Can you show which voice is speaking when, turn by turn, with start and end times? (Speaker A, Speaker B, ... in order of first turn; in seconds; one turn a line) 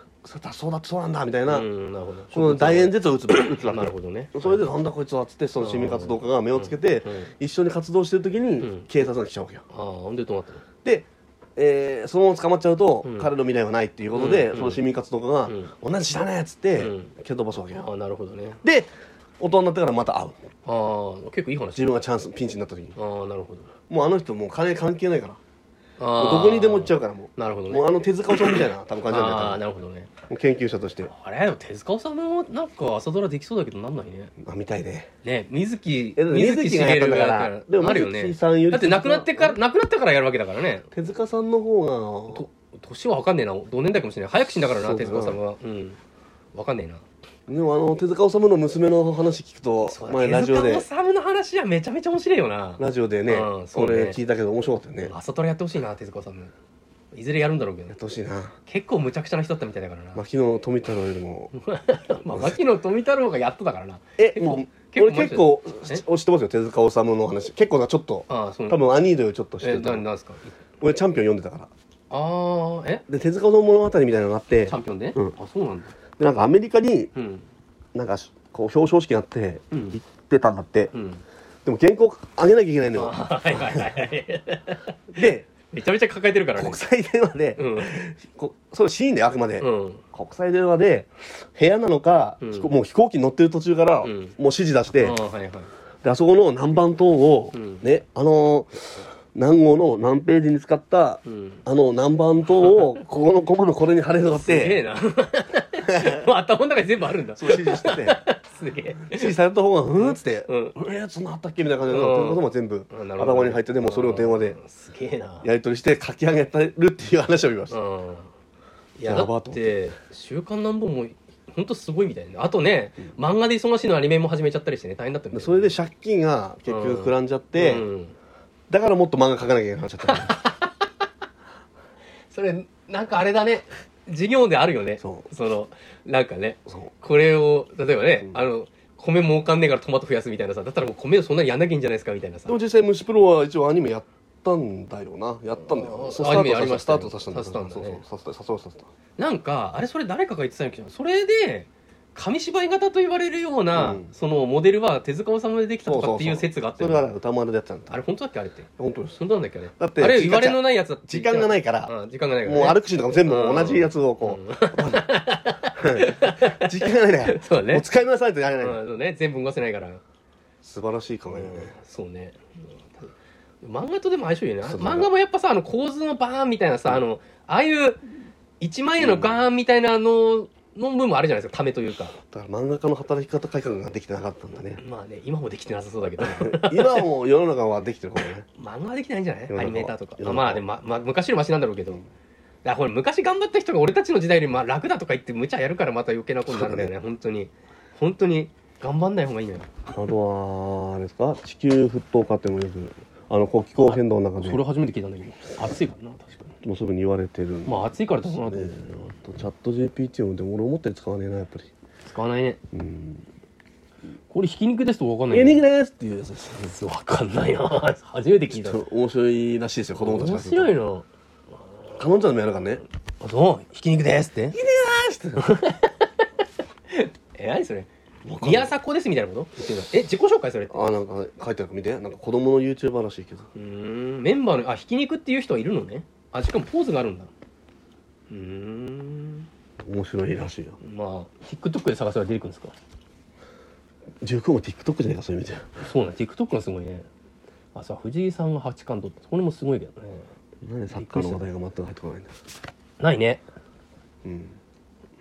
Speaker A: 0.2-1.7
Speaker B: 1.5-4.7
Speaker A: 2.3-9.6
Speaker B: 5.6-7.3
Speaker B: 8.6-8.9
Speaker B: 9.7-10.6
Speaker A: 10.8-17.9
Speaker B: 13.0-13.3
Speaker B: 14.1-14.8
Speaker B: 15.4-15.7
Speaker B: 16.8-17.1
Speaker B: 17.7-18.6
Speaker A: 18.6-20.4
Speaker B: 20.6-21.9
Speaker A: 21.7-23.0
Speaker B: 22.9-23.7
Speaker A: 23.9-25.4
Speaker B: 26.0-27.9
Speaker A: 26.2-29.6
Speaker B: 28.4-30.1
Speaker A: 30.3-31.1
Speaker B: 31.1-34.3
Speaker A: 34.4-35.1
Speaker B: 35.2-40.9
Speaker A: 36.1-39.6
Speaker A: 40.9-42.5
Speaker B: 42.3-46.0
Speaker A: 44.6-45.4
Speaker B: 46.5-47.0
Speaker A: 47.5-50.9
Speaker B: 49.8-54.2
Speaker A: 52.8-55.1
Speaker B: 55.0-56.5
Speaker B: 57.1-58.0
Speaker A: 57.9-58.5
Speaker B: 58.7-60.2
Speaker A: 60.1-61.5
Speaker B: 61.5-66.0
Speaker A: 62.2-62.6
Speaker A: 64.2-70.0
Speaker B: 68.3-68.8
Speaker B: 69.6-70.6
Speaker A: 70.8-71.7
Speaker B: 72.1-73.0
Speaker A: 73.1-75.3
Speaker B: 74.7-76.0
Speaker A: 76.2-77.1
Speaker B: 77.1-77.4
Speaker A: 77.9-80.9
Speaker B: 79.7-80.0
Speaker B: 80.9-81.2
Speaker A: 81.6-84.1
Speaker B: 82.9-86.8
Speaker A: 85.1-85.5
Speaker A: 86.5-95.2
Speaker B: 87.6-88.0
Speaker B: 89.6-90.0
Speaker B: 92.4-92.7
Speaker B: 94.0-94.3
Speaker B: 95.0-95.7
Speaker A: 96.0-104.8
Speaker B: 97.5-97.8
Speaker B: 101.2-101.6
Speaker B: 102.5-102.9
Speaker B: 104.3-109.3
Speaker A: 105.8-106.3
Speaker A: 107.3-108.2
Speaker A: 109.0-114.6
Speaker B: 110.0-110.8
Speaker B: 111.9-115.5
Speaker A: 115.4-117.8
Speaker B: 117.7-118.3
Speaker B: 119.0-125.8
Speaker A: 119.0-119.7
Speaker A: 125.3-127.8
Speaker B: 126.7-128.1
Speaker A: 128.7-130.3
Speaker B: 130.1-130.8
Speaker B: 132.3-142.6
Speaker A: 135.0-135.3
Speaker A: 142.5-148.9
Speaker B: 145.6-148.0
Speaker B: 149.2-157.1
Speaker A: 153.7-154.1
Speaker A: 155.8-158.0
Speaker B: 157.9-167.8
Speaker A: 158.8-159.2
Speaker A: 159.8-161.9
Speaker A: 162.4-165.1
Speaker A: 165.8-168.8
Speaker B: 168.6-170.0
Speaker A: 170.6-171.7
Speaker B: 171.3-173.1
Speaker B: 173.6-178.0
Speaker A: 174.6-175.1
Speaker B: 178.6-182.2
Speaker A: 179.0-179.4
Speaker A: 182.3-184.8
Speaker B: 184.8-187.1
Speaker A: 186.2-188.4
Speaker B: 188.5-192.0
Speaker A: 189.5-190.6
Speaker B: 192.6-199.7
Speaker A: 196.5-196.9
Speaker A: 199.9-204.6
Speaker B: 203.8-206.6
Speaker A: 206.6-211.7
Speaker B: 207.7-208.9
Speaker B: 212.1-212.6
Speaker A: 212.7-213.2
Speaker B: 214.3-215.6
Speaker A: 215.3-216.7
Speaker B: 216.6-218.8
Speaker A: 218.5-220.7
Speaker B: 219.9-221.1
Speaker A: 222.0-222.8
Speaker B: 223.2-224.6
Speaker A: 224.5-225.5
Speaker B: 225.3-226.3
Speaker B: 226.9-227.9
Speaker A: 228.2-228.7
Speaker B: 228.4-230.8
Speaker A: 230.7-233.5
Speaker B: 233.5-237.3
Speaker B: 238.3-239.5
Speaker A: 239.8-240.8
Speaker B: 240.8-242.7
Speaker A: 244.2-245.7
Speaker B: 245.8-247.1
Speaker B: 247.7-250.3
Speaker A: 250.6-252.3
Speaker B: 250.9-251.4
Speaker B: 253.0-253.4
Speaker A: 254.2-254.6